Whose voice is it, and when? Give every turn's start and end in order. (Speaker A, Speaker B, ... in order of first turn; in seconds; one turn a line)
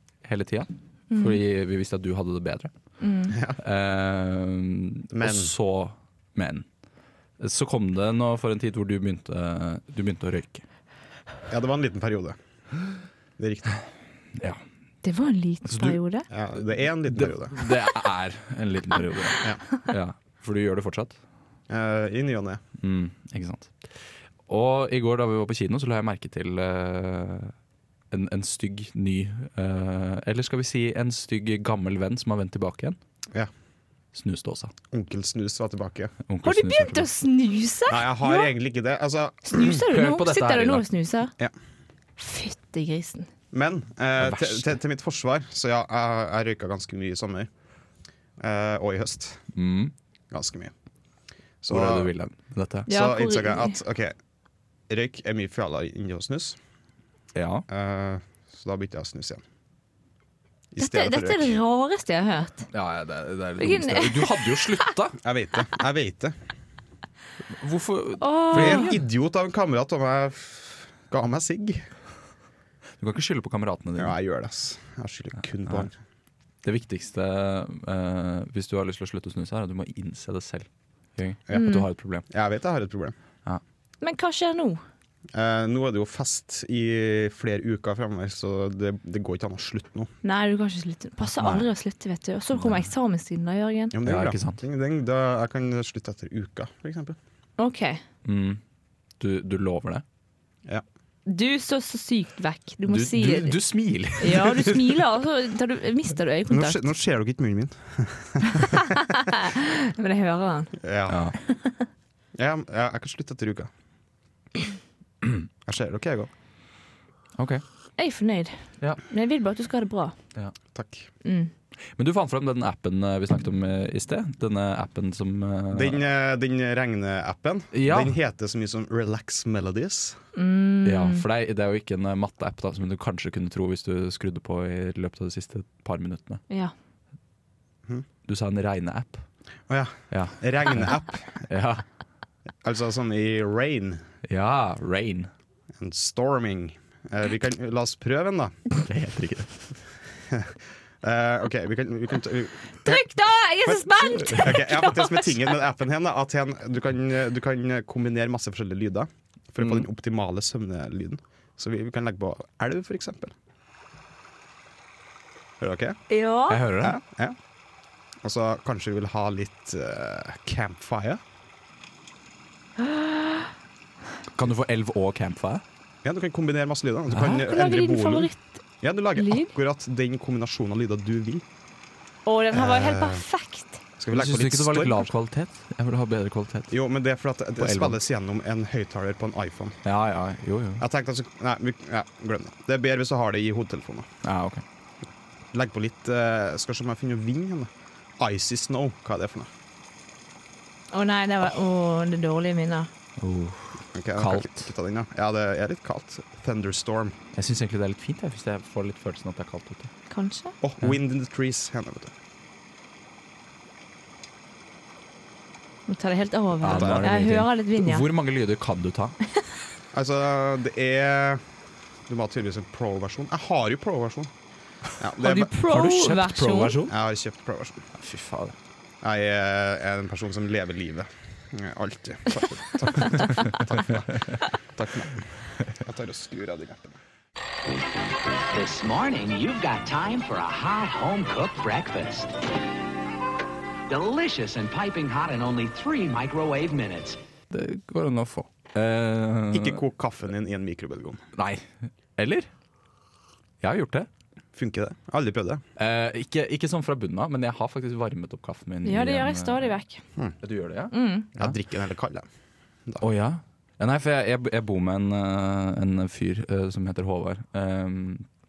Speaker A: 0.2-2.7
Speaker B: 1.1-1.4
Speaker B: 3.0-3.4
Speaker C: 3.3-3.6
Speaker A: 3.6-6.6
Speaker C: 5.1-5.5
Speaker A: 7.4-10.6
Speaker C: 11.5-12.4
Speaker C: 13.4-13.7
Speaker A: 14.3-14.6
Speaker B: 15.0-16.2
Speaker A: 15.7-16.0
Speaker C: 16.3-17.6
Speaker A: 17.1-21.1
Speaker C: 21.7-22.6
Speaker A: 22.8-23.7
Speaker A: 24.5-27.5
Speaker A: 28.1-33.0
Speaker A: 34.1-34.7
Speaker C: 34.9-36.1
Speaker A: 36.3-37.1
Speaker B: 36.4-38.5
Speaker C: 37.9-39.8
Speaker B: 39.5-41.3
Speaker A: 39.6-40.9
Speaker B: 42.2-43.3
Speaker C: 43.5-47.5
Speaker A: 44.2-44.7
Speaker C: 48.4-49.4
Speaker A: 49.5-49.9
Speaker C: 50.3-50.7
Speaker C: 51.6-52.1
Speaker A: 51.7-52.9
Speaker C: 52.9-54.1
Speaker B: 52.9-53.8
Speaker C: 54.9-56.6
Speaker A: 57.3-57.6
Speaker C: 57.7-59.4
Speaker C: 60.7-61.6
Speaker B: 60.8-62.7
Speaker A: 62.7-65.2
Speaker B: 63.6-64.9
Speaker C: 65.2-66.3
Speaker A: 67.5-69.0
Speaker B: 68.2-68.9
Speaker C: 68.5-71.9
Speaker A: 73.0-74.2
Speaker C: 74.0-75.9
Speaker A: 76.6-82.2
Speaker B: 81.5-81.8
Speaker C: 82.3-83.2
Speaker B: 84.0-84.8
Speaker C: 85.3-90.1
Speaker B: 90.2-93.9
Speaker A: 91.4-91.7
Speaker A: 92.6-92.8
Speaker C: 93.9-97.2
Speaker A: 94.0-94.6
Speaker B: 97.6-98.0
Speaker A: 98.2-98.6
Speaker A: 99.2-100.0
Speaker B: 101.2-103.5
Speaker A: 102.9-105.0
Speaker B: 104.2-106.9
Speaker C: 106.5-108.8
Speaker B: 108.5-110.8
Speaker C: 110.8-111.3
Speaker A: 111.1-111.4
Speaker B: 111.4-111.8
Speaker C: 112.3-113.7
Speaker C: 115.6-116.3
Speaker A: 117.4-117.6
Speaker B: 118.0-120.1
Speaker C: 120.7-121.1
Speaker B: 121.2-121.5
Speaker A: 122.0-126.0
Speaker C: 125.7-130.2
Speaker A: 127.7-128.2
Speaker B: 130.3-131.2
Speaker A: 130.8-136.4
Speaker A: 138.3-139.2
Speaker C: 139.7-141.5
Speaker A: 140.1-140.9
Speaker A: 141.5-141.8
Speaker C: 142.6-144.0
Speaker A: 144.3-145.3
Speaker C: 145.8-148.6
Speaker A: 148.8-149.7
Speaker C: 150.3-153.0
Speaker B: 152.8-155.5
Speaker C: 153.6-163.3
Speaker A: 159.6-159.8
Speaker C: 165.6-166.0
Speaker B: 166.1-166.6
Speaker A: 166.5-167.0
Speaker C: 166.8-167.3
Speaker C: 168.2-171.2
Speaker B: 172.8-173.5
Speaker A: 174.3-175.6
Speaker C: 176.0-178.3
Speaker A: 177.1-177.4
Speaker B: 177.3-178.6
Speaker C: 178.8-181.4
Speaker B: 179.2-179.5
Speaker B: 182.2-183.8
Speaker C: 182.5-183.2
Speaker C: 184.0-185.1
Speaker A: 184.1-186.7
Speaker C: 186.7-189.8
Speaker A: 187.6-188.0
Speaker A: 189.8-190.8
Speaker C: 190.8-194.1
Speaker A: 194.2-194.6
Speaker C: 195.5-199.5
Speaker B: 200.9-202.9
Speaker A: 203.2-204.7
Speaker C: 203.9-207.2
Speaker A: 207.3-209.9
Speaker B: 210.1-210.5
Speaker C: 210.6-212.1
Speaker B: 215.9-218.0
Speaker A: 216.6-219.2
Speaker C: 216.6-217.1
Speaker C: 219.9-221.4
Speaker C: 222.1-224.3
Speaker C: 225.0-225.5
Speaker B: 225.2-226.8
Speaker A: 225.3-226.9
Speaker C: 226.8-227.8
Speaker A: 228.0-228.5
Speaker C: 229.0-237.0
Speaker D: 238.5-242.3
Speaker D: 243.9-247.2
Speaker A: 247.5-249.8
Speaker C: 249.5-251.2
Speaker A: 251.3-252.5
Speaker A: 253.6-254.1
Speaker C: 254.5-255.6
Speaker A: 255.8-259.8
Speaker B: 258.8-260.0
Speaker A: 260.4-261.5
Speaker B: 260.9-261.3
Speaker C: 261.3-262.3
Speaker A: 263.0-268.2